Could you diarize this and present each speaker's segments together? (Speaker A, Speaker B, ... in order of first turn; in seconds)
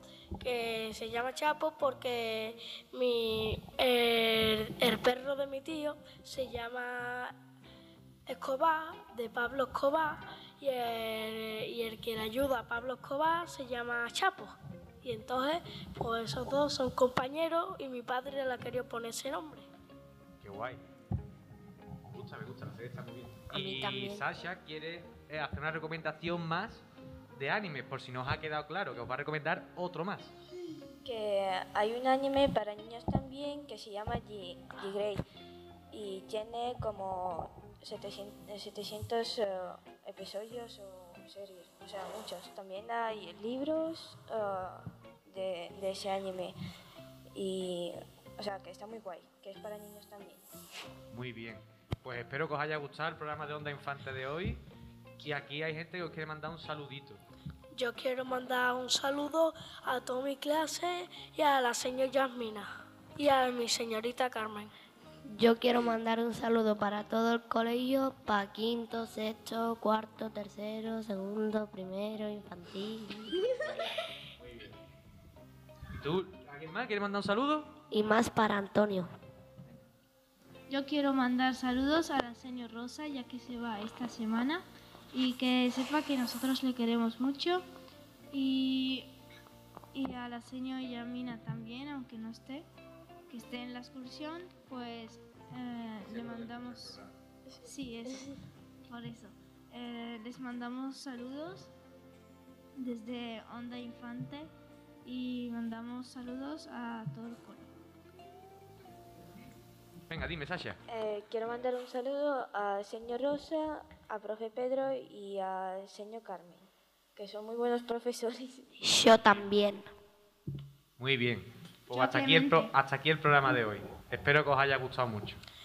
Speaker A: 0.4-7.4, 8.3-19.7, 57.7-64.7
Speaker B: 20.4-20.8, 22.1-30.3, 51.1-54.6, 55.2-57.2, 74.4-74.8, 76.0-77.7, 96.0-97.1, 110.1-110.8, 121.0-125.4
Speaker C: 23.5-24.3, 65.3-73.7, 77.9-79.1, 118.8-119.9
Speaker D: 31.0-35.2, 35.9-46.6, 47.3-50.4, 97.5-98.4, 110.9-118.7
Speaker E: 80.7-87.7, 88.3-89.2, 89.9-92.7, 93.3-97.0, 97.6-98.3, 98.9-101.7, 102.8-104.5, 105.0-107.7, 121.9-122.7